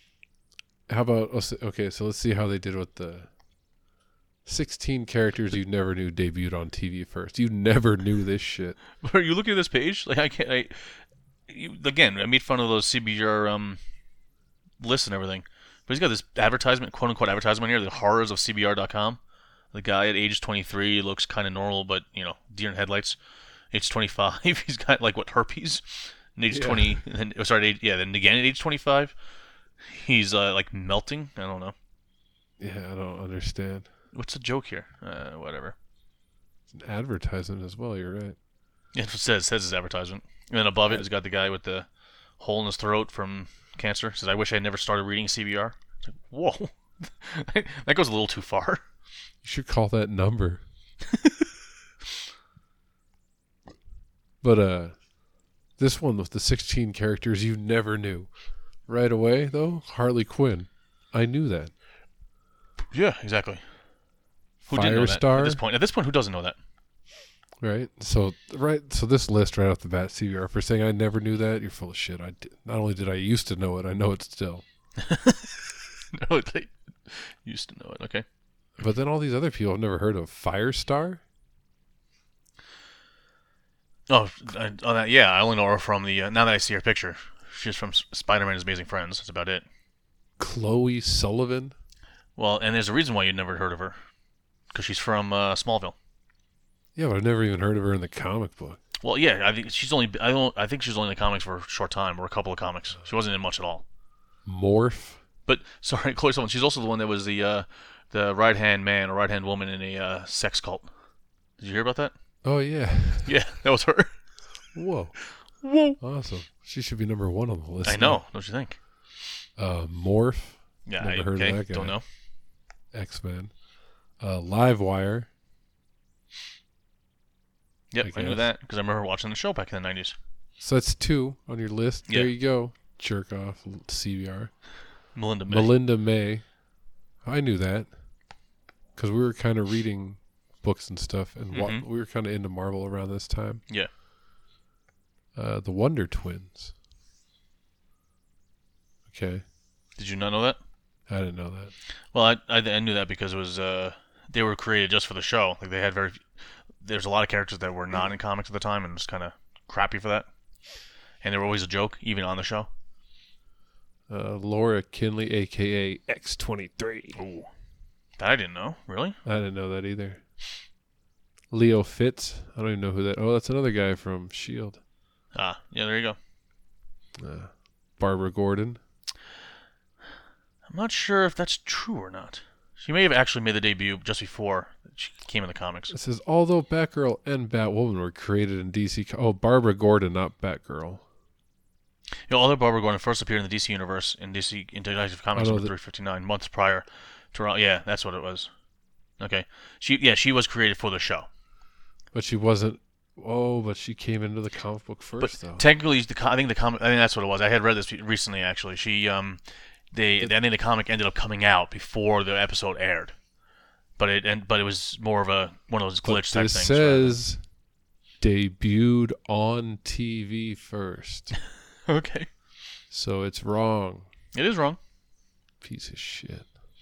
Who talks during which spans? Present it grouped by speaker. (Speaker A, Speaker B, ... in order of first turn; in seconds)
Speaker A: 0.9-3.4, 4.5-8.8, 26.5-27.0, 32.6-33.9, 36.7-38.4, 49.4-50.6, 54.4-61.8, 64.7-65.6, 67.6-74.6, 78.8-81.2, 90.4-91.8, 97.0-98.8, 104.5-105.2, 112.4-113.4, 114.7-118.3, 119.6-122.1, 122.9-125.3, 128.0-128.5, 130.6-134.9, 135.5-136.6, 137.2-138.2, 138.9-143.6, 145.3-146.8, 149.1-149.4, 151.1-151.7, 164.1-167.2, 169.2-170.2, 171.5-174.8, 177.2-178.8, 185.9-191.0, 195.3-195.7, 202.1-205.7, 216.0-217.5, 218.2-221.4, 222.9-224.1, 225.6-226.6
Speaker B: 9.0-13.8, 14.8-19.2, 19.7-23.2, 23.7-29.1, 29.9-31.7, 34.1-35.8, 38.9-41.9, 42.4-48.8, 62.9-63.6, 64.6-66.6, 75.0-75.5, 76.1-78.2, 84.1-89.7, 92.4-94.0, 94.7-96.0, 99.0-103.8, 105.5-112.4, 113.2-114.8, 115.4-116.0, 117.8-119.0, 120.8-122.0, 127.9-130.2, 135.1-135.7, 141.5-141.8, 150.0-150.6, 152.1-160.3, 161.2-162.7, 167.2-167.5, 168.2-169.2, 175.3-176.2, 180.7-185.9, 192.3-198.5, 199.2-201.3, 205.2-213.2, 214.0-217.2, 221.9-222.3, 224.3-224.8